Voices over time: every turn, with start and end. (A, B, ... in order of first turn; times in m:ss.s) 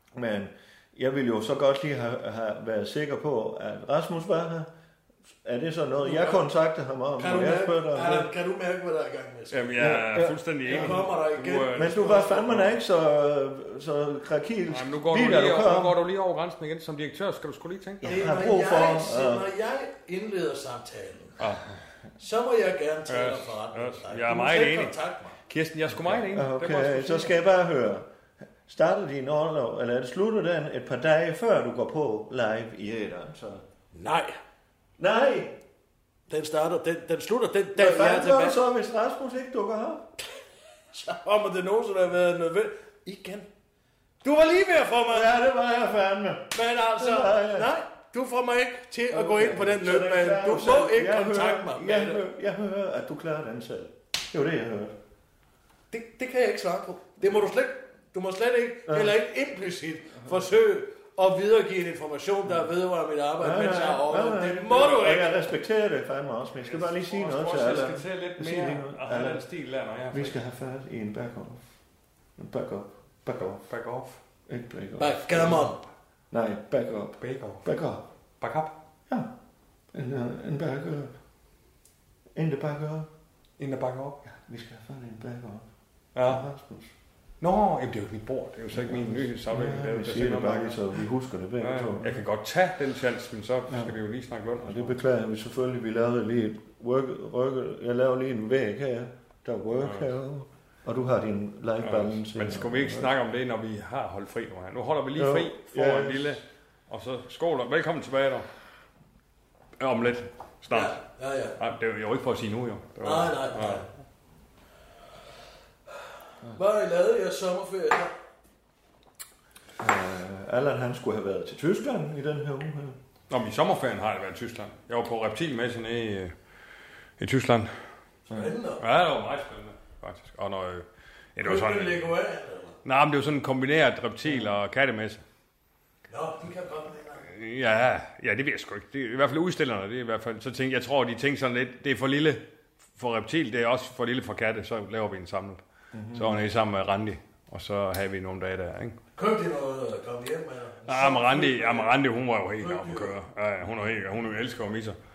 0:00.2-0:04.7 A
0:05.4-0:08.3 A
0:06.0-0:06.5 B
0:07.2-0:10.0 B
0:09.5-0:12.8 C
0:09.8-0:11.1 A
0:10.7-0:12.2 B
0:11.8-0:16.0 A
0:14.7-0:18.3 C
0:18.0-0:19.5 A
0:18.0-0:21.4 B
0:21.4-0:21.8 C
0:22.2-0:25.4 B
0:23.1-0:27.4 C
0:26.0-0:28.1 A
0:28.7-0:33.6 A
0:33.9-0:34.4 B
0:35.0-0:35.6 A
0:36.3-0:38.6 B
0:37.8-0:40.1 A
0:40.9-0:43.5 B
0:44.2-0:45.5 B
0:45.1-0:47.7 A
0:46.5-0:52.2 B
0:49.1-0:55.0 A
0:55.9-1:05.5 B
0:58.9-0:59.2 A
1:03.4-1:09.5 A
1:06.6-1:10.4 C
1:10.1-1:11.6 A
1:12.4-1:13.6 A
1:13.6-1:14.2 C
1:14.5-1:15.7 A
1:15.0-1:15.8 B
1:16.3-1:18.0 A
1:17.2-1:17.7 C
1:18.4-1:18.7 C
1:19.9-1:21.1 A
1:22.4-1:23.1 A
1:23.6-1:24.2 C
1:24.2-1:25.7 A
1:26.2-1:26.4 C
1:26.2-1:26.9 A
1:27.4-1:30.9 C
1:28.7-1:32.2 A
1:31.6-1:35.0 C
1:33.7-1:33.9 A
1:34.6-1:43.1 A
1:39.8-1:40.1 C
1:41.8-1:48.5 C
1:45.2-1:46.4 A
1:49.8-1:51.0 C
1:50.7-1:51.6 B
1:51.6-1:53.9 C
1:53.0-1:53.9 B
1:56.5-1:58.1 B
1:59.8-2:03.0 A
2:03.3-2:06.3 C
2:07.2-2:07.9 C
2:08.3-2:08.8 B
2:08.8-2:12.1 C
2:11.4-2:12.8 B
2:12.8-2:15.2 C
2:16.1-2:17.3 B
2:17.2-2:25.6 C
2:25.9-2:26.4 A
2:26.1-2:29.0 C
2:29.2-2:31.9 B
2:30.9-2:35.0 C
2:32.6-2:33.1 B